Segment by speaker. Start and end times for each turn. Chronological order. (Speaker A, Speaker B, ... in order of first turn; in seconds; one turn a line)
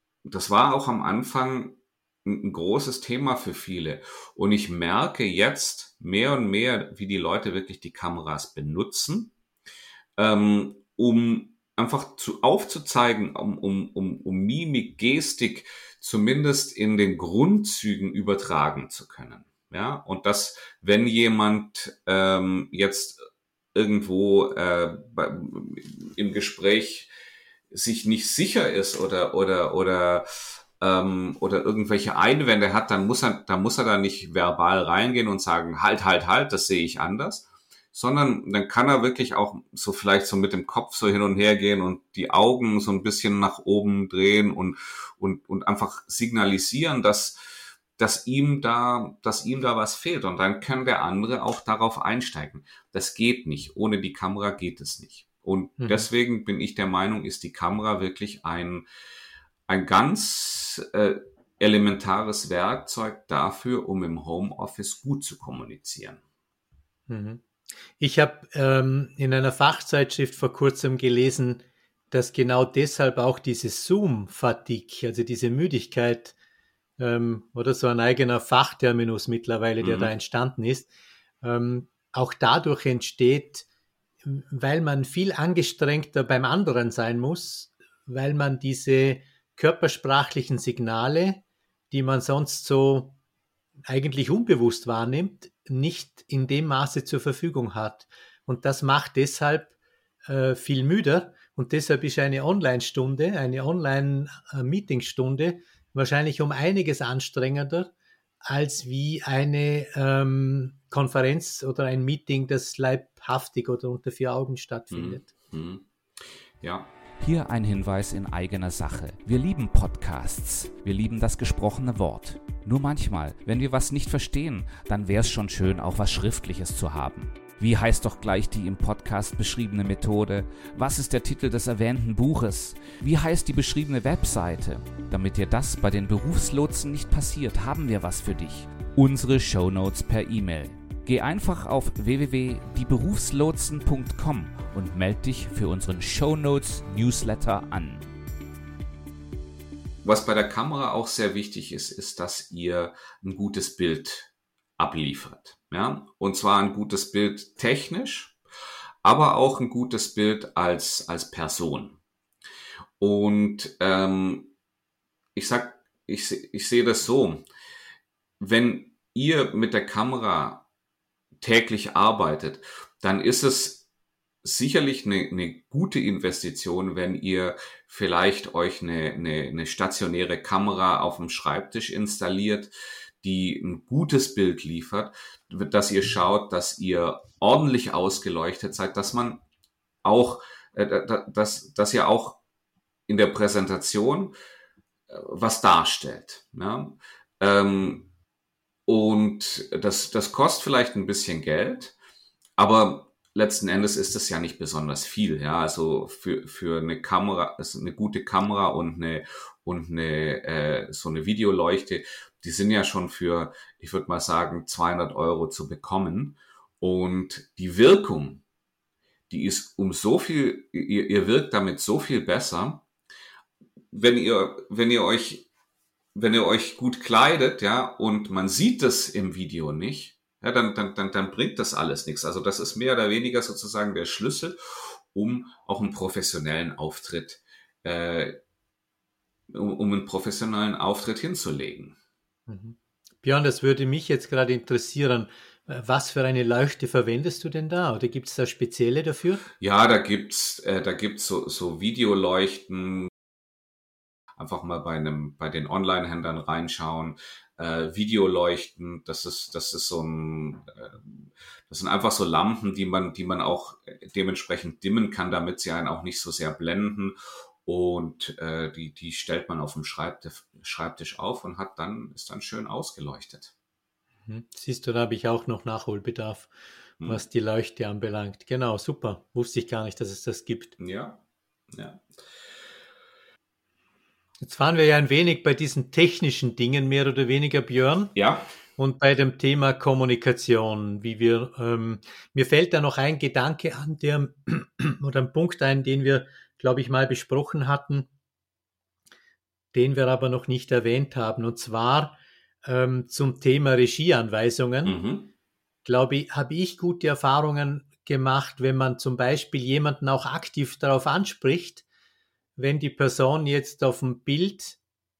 Speaker A: 0.2-9.3
Speaker A: 10.2-23.2
Speaker A: 23.7-27.1
Speaker A: 27.7-58.9
Speaker B: 55.8-56.1
Speaker A: 59.7-66.2
Speaker B: 67.1-67.4
Speaker B: 68.0-76.3
Speaker B: 77.0-80.9
Speaker A: 79.8-80.1
Speaker B: 81.4-83.7
Speaker B: 84.2-93.2
Speaker B: 93.9-99.7
Speaker B: 100.3-107.9
Speaker B: 108.5-115.3
Speaker A: 114.9-116.9
Speaker C: 117.2-148.1
Speaker A: 150.0-158.4
Speaker A: 159.0-162.0
Speaker A: 163.0-164.5
Speaker A: 165.3-167.5
Speaker A: 168.4-170.7
Speaker A: 171.4-173.8
Speaker A: 174.4-189.4
Speaker A: 190.0-192.4
Speaker A: 193.1-194.3
Speaker A: 195.1-198.1
Speaker A: 198.9-201.9
Speaker A: 202.6-218.4
Speaker A: 219.3-222.8
Speaker A: 223.9-225.5
Speaker A: 226.2-238.4
Speaker A: 239.5-242.0
Speaker B: 242.5-249.4
Speaker A: 249.6-253.1
Speaker A: 254.4-273.5
Speaker B: 274.3-276.5
Speaker B: 277.0-280.8
Speaker A: 280.8-282.1
Speaker B: 284.4-288.1
Speaker A: 288.1-288.5
Speaker B: 288.8-298.1
Speaker B: 299.7-305.0
Speaker A: 304.9-305.3
Speaker B: 305.9-311.8
Speaker B: 312.6-314.8